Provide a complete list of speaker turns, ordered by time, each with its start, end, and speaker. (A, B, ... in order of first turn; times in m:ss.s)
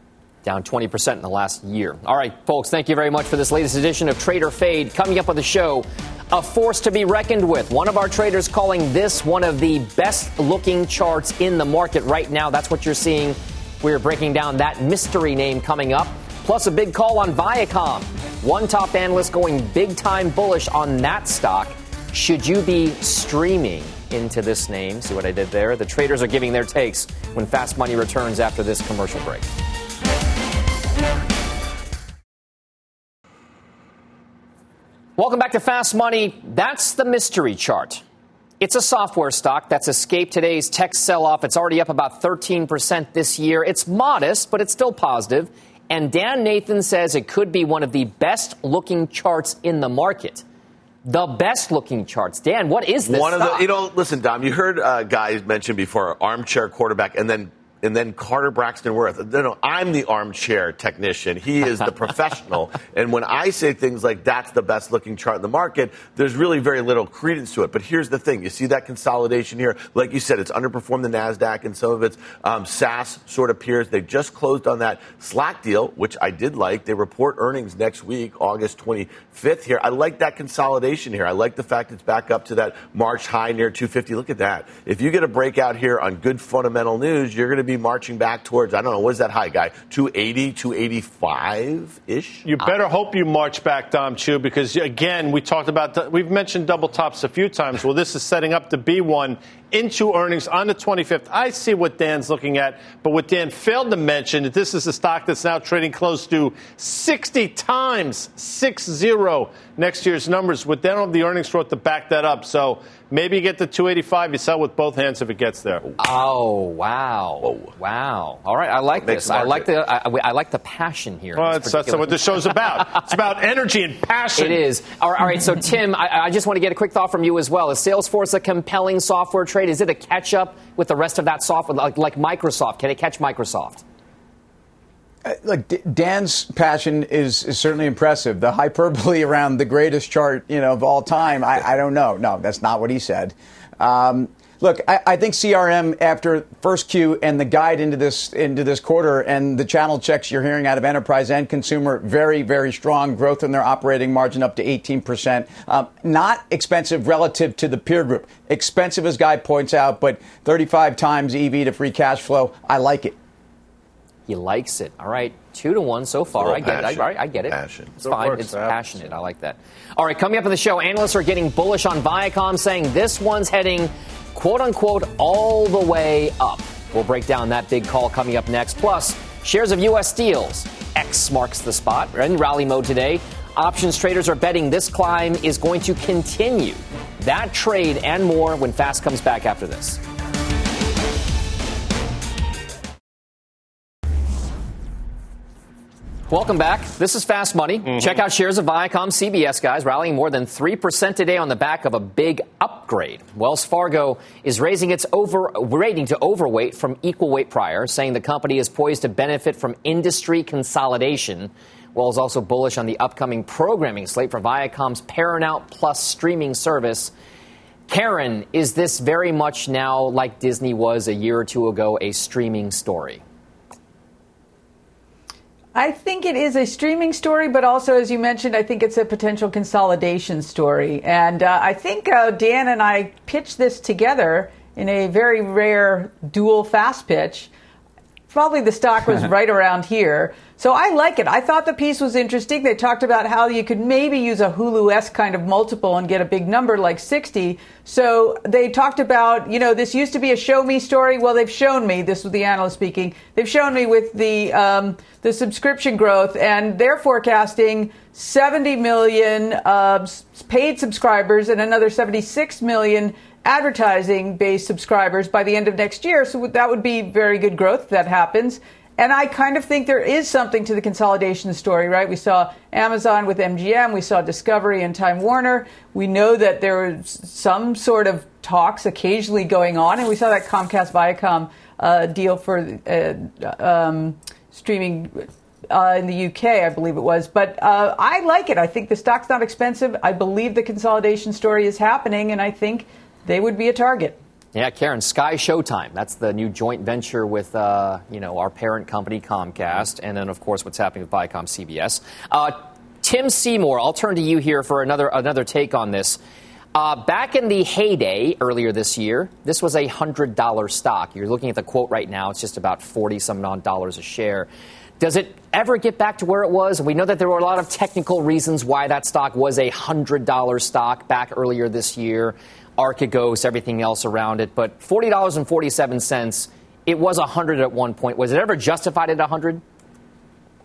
0:00.4-0:29.5 A
0:35.2-0:38.0 A
0:38.6-0:50.4 A
0:51.0-0:53.7 A
0:53.0-1:32.5 B
1:32.4-1:55.8 C
1:56.0-2:02.4 A
1:59.0-1:59.7 B
2:01.4-2:04.6 C
2:04.4-2:13.8 A
2:15.2-2:43.2 D
2:44.3-3:10.0 A
2:46.4-2:48.6 B
3:16.3-3:37.1 A
3:37.9-3:43.2 A
3:45.7-3:57.5 E
3:58.3-4:54.2 E
4:54.6-5:06.2 A
5:06.7-5:14.5 A
5:15.0-5:29.6 A